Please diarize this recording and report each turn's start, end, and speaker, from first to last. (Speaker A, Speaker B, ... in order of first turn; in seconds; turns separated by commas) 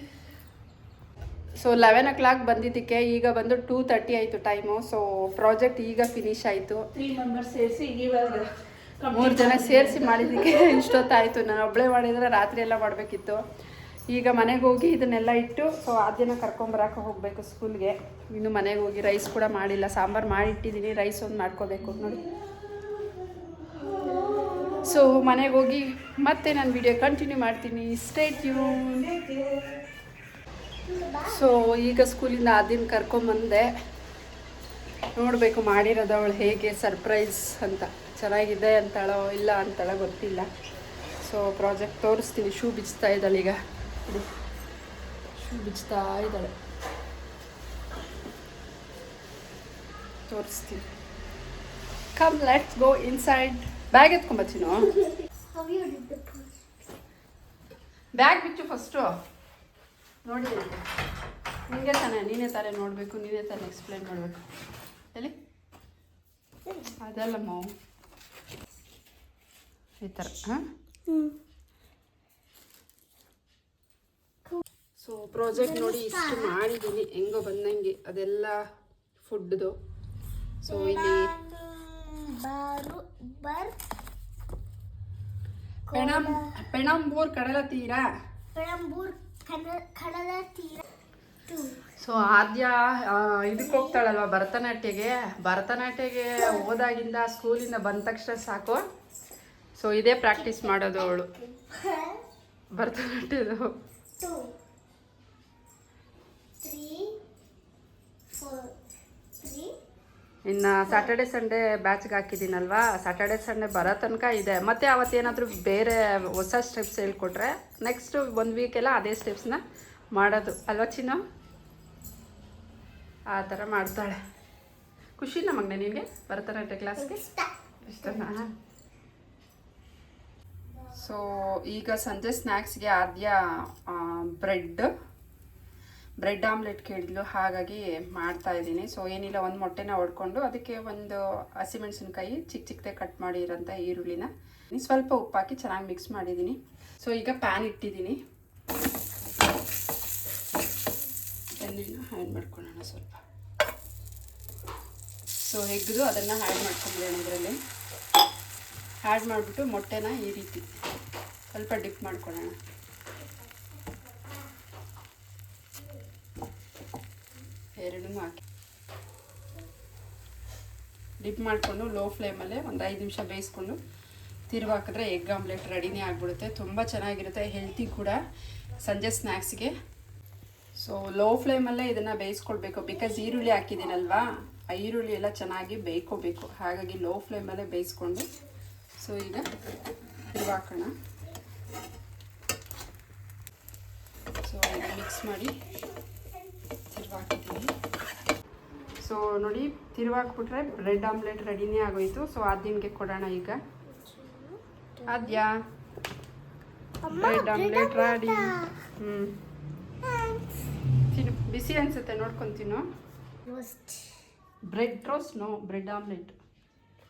Speaker A: 1.6-6.8, Speaker B: 6.9-10.9, Speaker A: 9.1-13.4, Speaker A: 14.1-22.2, Speaker C: 23.8-24.8, Speaker A: 24.8-29.1, Speaker C: 30.9-31.4, Speaker A: 31.2-33.7, Speaker A: 35.1-40.5, Speaker A: 41.2-44.2, Speaker A: 45.4-46.5, Speaker A: 50.3-50.8, Speaker A: 52.1-54.9, Speaker C: 55.5-56.5, Speaker A: 58.1-59.1, Speaker A: 60.2-60.8, Speaker A: 61.7-64.4, Speaker A: 67.0-67.7, Speaker A: 70.0-70.6, Speaker C: 71.1-71.3, Speaker A: 75.0-78.6, Speaker C: 75.8-76.5, Speaker A: 79.2-79.7, Speaker A: 80.6-81.3, Speaker C: 80.7-83.7, Speaker C: 85.9-86.4, Speaker A: 85.9-88.0, Speaker C: 88.5-90.8, Speaker C: 91.5-91.8, Speaker A: 92.0-98.8, Speaker C: 93.6-93.9, Speaker C: 96.4-96.7, Speaker A: 99.8-101.3, Speaker C: 100.4-102.2, Speaker A: 102.7-103.7, Speaker C: 104.2-104.5, Speaker C: 106.6-107.2, Speaker C: 108.3-108.7, Speaker C: 109.4-109.7, Speaker A: 110.4-119.6, Speaker A: 120.1-121.2, Speaker A: 123.3-124.2, Speaker A: 125.2-127.2, Speaker C: 127.0-128.2, Speaker A: 127.9-128.4, Speaker A: 130.9-134.9, Speaker A: 136.2-148.2, Speaker A: 151.5-153.2, Speaker A: 155.4-157.6, Speaker A: 159.0-160.6, Speaker A: 161.5-162.5, Speaker A: 167.8-168.4, Speaker A: 171.2-173.8, Speaker A: 174.5-178.2, Speaker A: 178.8-179.7, Speaker A: 180.8-188.3, Speaker A: 189.0-189.4, Speaker A: 190.3-190.9, Speaker A: 194.4-195.5, Speaker A: 196.9-197.7, Speaker A: 199.0-203.6, Speaker C: 203.9-205.4, Speaker A: 205.1-205.6, Speaker C: 207.0-208.7, Speaker A: 207.1-209.3, Speaker C: 210.0-210.6, Speaker A: 211.1-212.8, Speaker C: 213.4-214.2, Speaker A: 214.7-216.3